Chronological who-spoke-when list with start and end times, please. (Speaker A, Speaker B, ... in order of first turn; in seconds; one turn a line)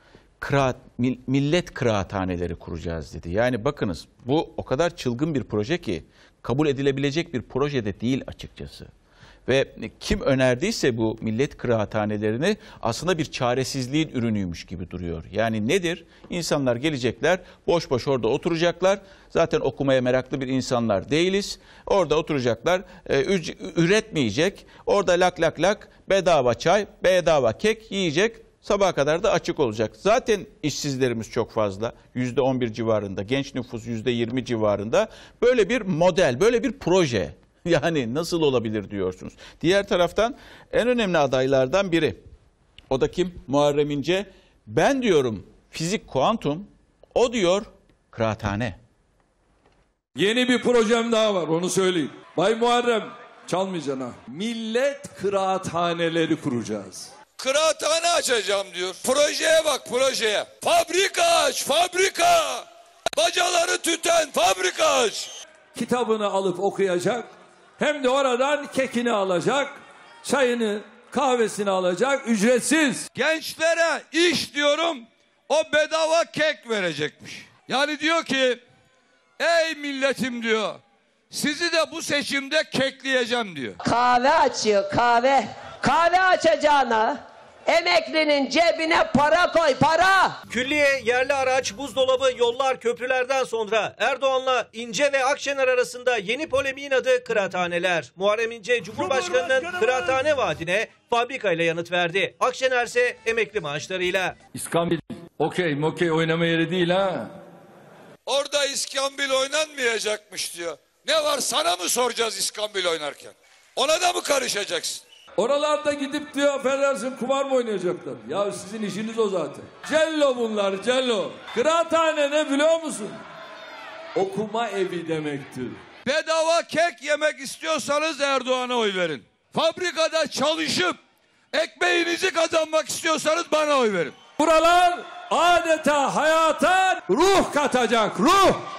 Speaker A: 0.4-8.9
Speaker A: 9.5-42.2
Speaker A: 42.9-48.8
Speaker B: 50.1-57.1
Speaker C: 57.4-65.3
Speaker B: 65.7-73.1
Speaker C: 73.1-78.6
Speaker C: 79.4-83.8
Speaker D: 83.8-90.4
Speaker E: 90.5-104.3
Speaker B: 104.5-107.3
Speaker C: 108.2-115.0
Speaker B: 115.4-123.2
Speaker B: 124.1-125.8
Speaker C: 126.0-131.0
Speaker C: 131.5-134.2
Speaker B: 134.4-138.6